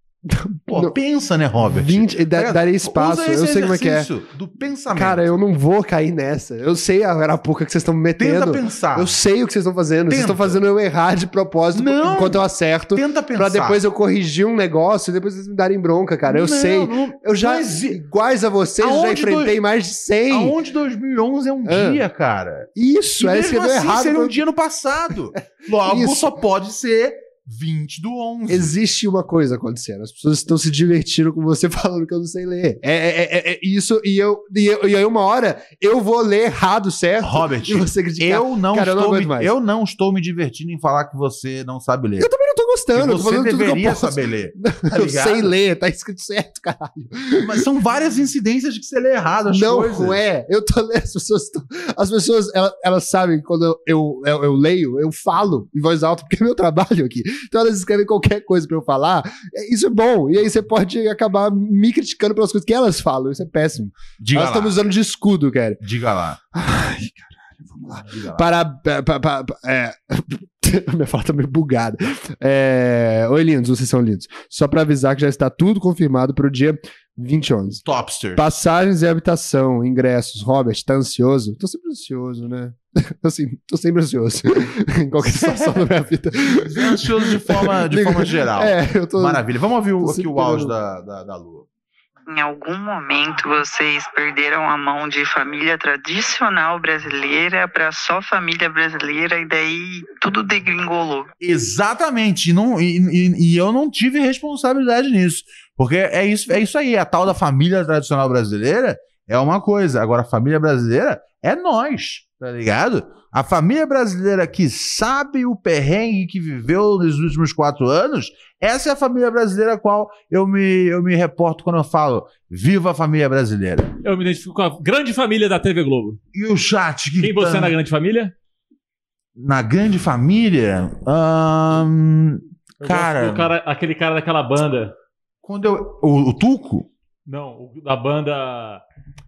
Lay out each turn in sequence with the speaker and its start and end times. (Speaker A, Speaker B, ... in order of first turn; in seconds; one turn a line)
Speaker A: 0.2-0.9
Speaker B: 0.7-5.3
Speaker A: 1.6-4.1
Speaker A: 4.9-20.6
Speaker B: 8.2-9.2
Speaker B: 10.1-10.6
Speaker B: 11.7-13.8
Speaker B: 16.2-18.0
Speaker B: 18.8-19.6
Speaker B: 20.3-22.7
Speaker A: 21.6-22.0
Speaker A: 22.8-24.4
Speaker B: 23.2-28.7
Speaker A: 25.8-26.3
Speaker A: 28.5-39.5
Speaker B: 37.2-42.3
Speaker A: 42.2-47.6
Speaker B: 42.9-45.5
Speaker B: 47.4-50.2
Speaker A: 49.5-65.8
Speaker B: 64.2-64.8
Speaker B: 65.8-66.4
Speaker A: 66.5-77.8
Speaker B: 68.1-68.5
Speaker B: 77.8-78.5
Speaker A: 78.3-89.4
Speaker B: 85.2-91.7
Speaker A: 90.0-90.7
Speaker C: 92.3-101.3
Speaker B: 101.4-123.9
Speaker D: 124.0-126.2
Speaker B: 126.3-127.7
Speaker D: 127.2-128.3
Speaker B: 129.4-133.5
Speaker D: 132.8-134.9
Speaker B: 135.4-136.9
Speaker D: 137.3-138.8